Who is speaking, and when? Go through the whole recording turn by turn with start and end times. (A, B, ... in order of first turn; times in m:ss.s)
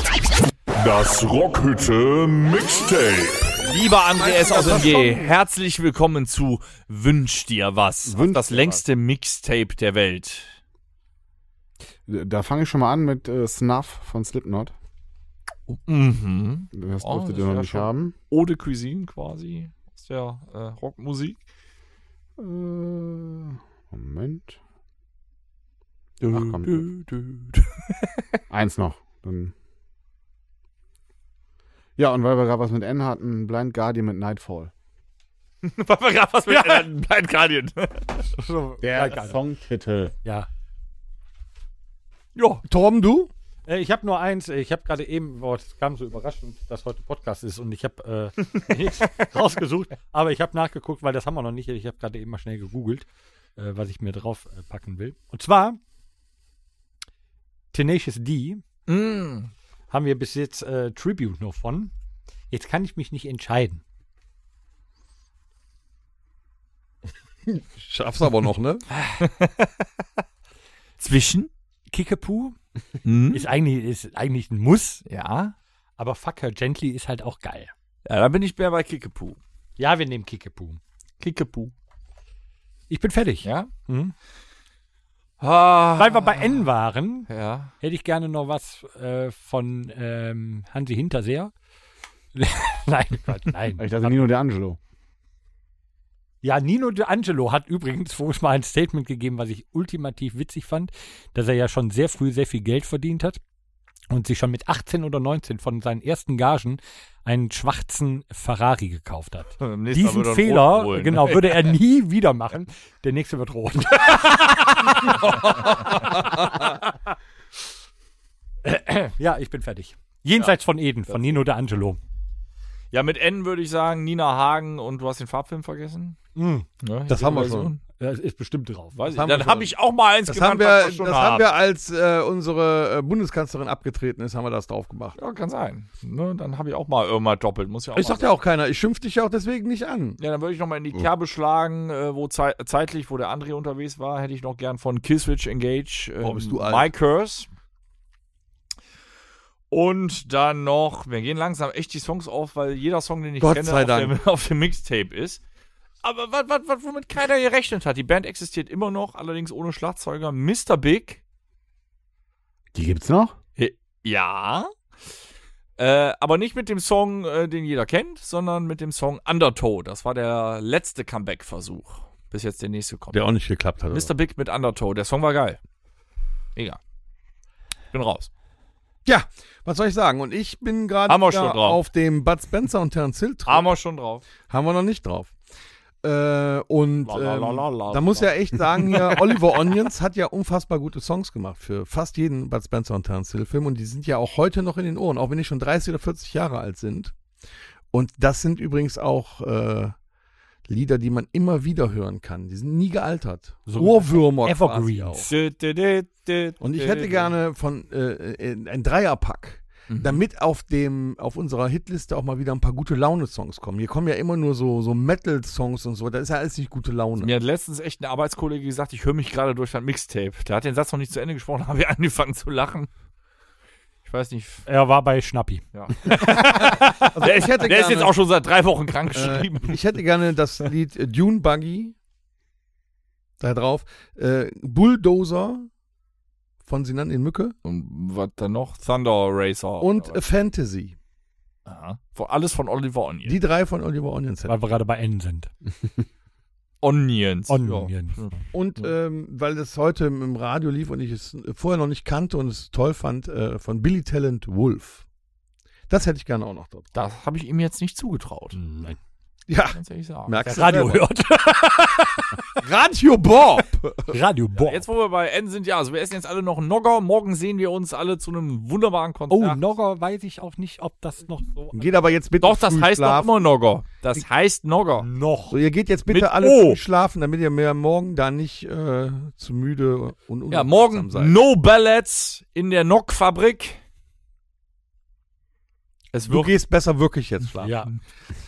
0:00.7-0:03.6 A
0:03.6-0:10.6 B
0:04.1-0:05.3 C
0:08.0-0:08.8 D
0:12.1-0:14.7 D
0:15.7-0:21.4 B
0:16.7-0:18.1 D
0:22.4-0:24.6 D
0:26.2-0:28.2 B
0:26.3-0:26.9 D
0:28.5-0:29.5 D
0:32.0-0:34.7 D
0:35.6-0:38.2 B
0:36.5-0:36.9 E
0:38.4-0:39.4 E
0:38.8-0:40.1 D
0:42.3-0:42.6 B
0:42.6-0:43.3 C
0:43.7-0:55.8 E
0:57.7-0:58.6 E
0:58.9-0:59.5 B
0:59.9-1:01.9 E
1:02.5-1:03.8 E
1:07.5-1:08.8 C
1:09.0-1:09.7 B
1:11.0-1:11.5 B
1:11.9-1:12.6 E
1:13.0-1:13.5 B
1:13.3-1:15.0 E
1:15.0-1:15.5 B
1:16.0-1:17.7 E
1:18.0-1:19.4 B
1:19.8-1:20.8 E
1:21.2-1:21.7 B
1:22.9-1:24.1 E
1:23.4-1:23.7 B
1:25.4-1:26.6 B
1:26.0-1:27.3 E
1:27.3-1:27.7 B
1:27.8-1:31.5 E
1:32.3-1:34.1 E
1:33.8-1:34.8 D
1:36.4-1:43.4 E
1:44.1-1:56.6 E
1:49.6-1:51.7 B
1:55.1-1:56.2 B
1:58.6-2:02.0 E
2:01.1-2:01.4 B
2:02.9-2:06.2 B
2:06.4-2:09.1 E
2:06.8-2:07.8 B
2:07.1-2:07.7 C
2:08.9-2:11.5 B
2:09.1-2:09.7 C
2:10.3-2:15.2 C
2:15.2-2:18.4 B
2:17.9-2:20.2 C
2:20.2-2:27.5 B
2:26.2-2:26.9 C
2:29.7-2:35.4 B
2:33.4-2:34.2 C
2:36.0-2:41.2 B
2:42.7-2:43.3 D
2:43.6-2:44.7 B
2:45.8-2:53.2 B
2:53.1-2:54.1 C
2:53.9-2:55.6 B
2:57.9-2:58.3 B
2:59.0-3:03.7 C
3:01.1-3:01.8 B
3:03.4-3:04.2 B
3:04.5-3:05.3 C
3:06.0-3:17.2 C
3:07.0-3:09.5 B
3:17.9-3:20.0 C
3:20.7-3:25.3 C
3:23.7-3:25.2 E
3:25.2-3:27.3 B
3:26.6-3:37.3 C
3:29.9-3:30.2 B
3:37.2-3:42.9 B
3:44.0-3:44.6 B
3:44.6-3:45.6 E
3:45.7-3:49.8 B
3:46.5-3:48.1 C
3:49.1-3:51.9 C
3:53.4-3:55.7 C
3:56.6-3:57.6 C
3:57.6-4:00.2 B
3:59.8-4:00.9 C
4:01.6-4:03.4 B
4:03.2-4:04.6 C
4:04.5-4:05.5 E
4:06.8-4:08.9 B
4:07.5-4:08.2 E
4:08.5-4:15.0 C
4:15.9-4:16.8 C
4:16.9-4:18.6 B
4:18.5-4:19.0 E
4:19.5-4:21.0 C
4:19.7-4:20.8 B
4:20.4-4:22.4 E
4:22.6-4:24.2 C
4:24.1-4:24.8 E
4:24.6-4:29.6 B
4:29.3-4:32.0 E
4:31.7-4:33.5 C
4:32.4-4:35.1 B
4:35.0-4:35.6 E
4:35.5-4:41.3 C
4:36.1-4:36.8 B
4:40.5-4:43.8 B
4:46.1-4:46.5 B
4:46.3-4:47.7 C
4:47.6-4:47.9 E